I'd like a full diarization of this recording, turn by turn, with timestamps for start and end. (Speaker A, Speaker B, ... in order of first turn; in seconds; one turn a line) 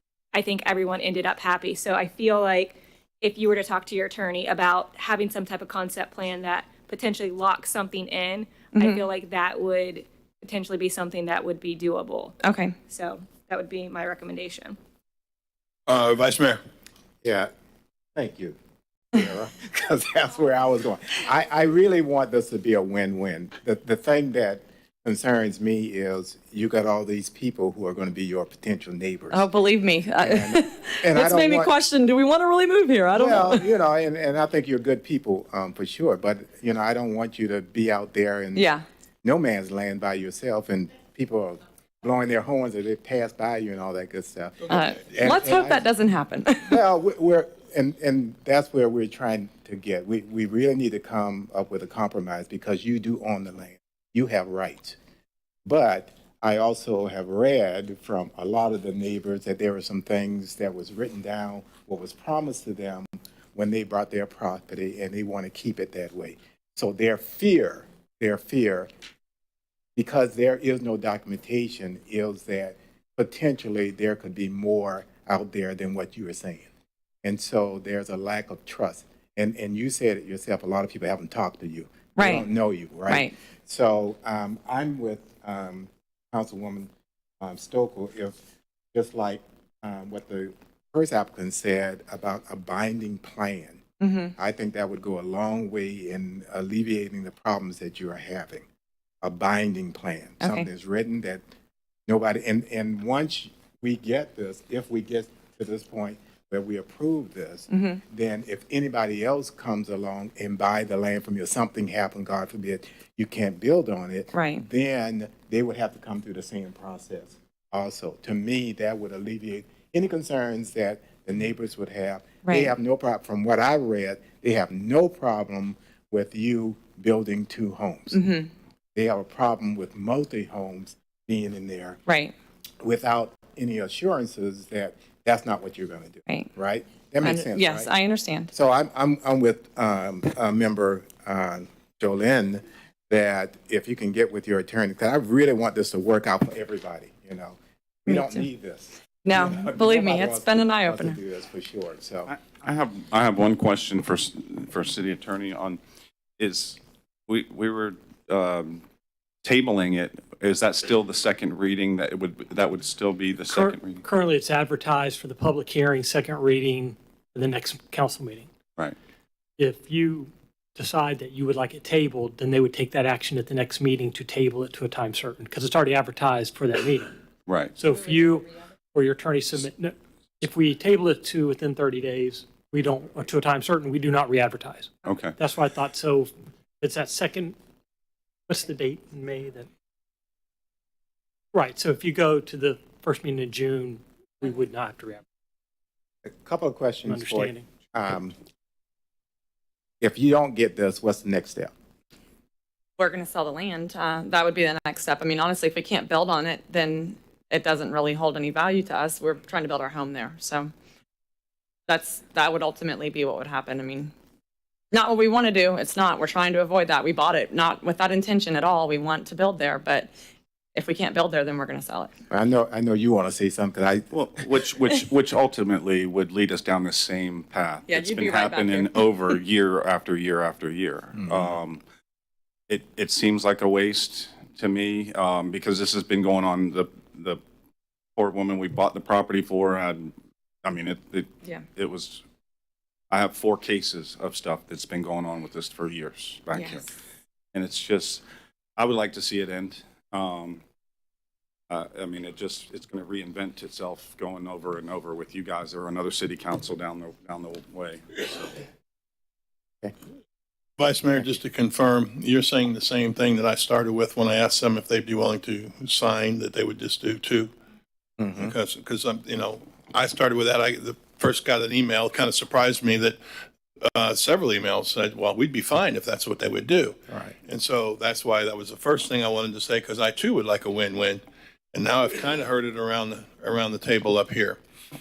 Speaker A: 0.3-14.8
Speaker B: 8.7-9.0
Speaker B: 12.4-12.7
Speaker C: 15.9-16.6
Speaker D: 17.2-17.5
Speaker D: 18.1-18.6
Speaker D: 19.1-29.5
Speaker B: 29.3-33.7
Speaker D: 30.2-31.7
Speaker D: 33.1-38.7
Speaker B: 38.5-38.8
Speaker D: 39.2-45.8
Speaker B: 44.7-46.8
Speaker D: 46.7-55.0
Speaker D: 55.6-68.9
Speaker D: 70.0-76.7
Speaker D: 77.2-86.9
Speaker B: 82.2-82.5
Speaker B: 83.1-83.3
Speaker D: 87.4-88.4
Speaker D: 88.9-93.8
Speaker B: 94.0-94.3
Speaker D: 94.4-98.6
Speaker D: 99.2-101.4
Speaker B: 100.4-100.7
Speaker D: 102.1-128.2
Speaker B: 107.7-108.0
Speaker B: 114.3-114.7
Speaker B: 122.4-122.7
Speaker B: 128.1-128.5
Speaker D: 128.9-132.0
Speaker B: 132.1-132.3
Speaker D: 132.8-137.9
Speaker B: 137.2-138.5
Speaker D: 138.5-152.3
Speaker B: 148.1-148.4
Speaker B: 149.2-151.2
Speaker E: 152.3-155.8
Speaker E: 156.4-158.8
Speaker E: 159.4-164.0
Speaker F: 163.4-168.5
Speaker F: 169.6-177.1
Speaker E: 177.5-177.8
Speaker F: 177.8-187.6
Speaker E: 185.0-185.3
Speaker F: 188.5-189.7
Speaker F: 191.5-195.2
Speaker D: 196.2-198.3
Speaker F: 197.1-197.7
Speaker D: 200.0-201.7
Speaker B: 203.0-210.7
Speaker B: 211.9-214.1
Speaker B: 214.9-220.1
Speaker B: 220.7-222.1
Speaker D: 222.3-224.1
Speaker E: 224.1-231.8
Speaker B: 227.8-229.3
Speaker D: 231.2-231.5
Speaker E: 232.7-237.4
Speaker E: 238.2-242.2
Speaker E: 243.1-246.8
Speaker B: 246.5-246.9
Speaker E: 247.5-248.2
Speaker E: 248.8-250.6
Speaker E: 251.7-258.5
Speaker C: 260.8-267.5
Speaker D: 268.2-268.5
Speaker C: 268.3-273.2
Speaker C: 273.8-284.6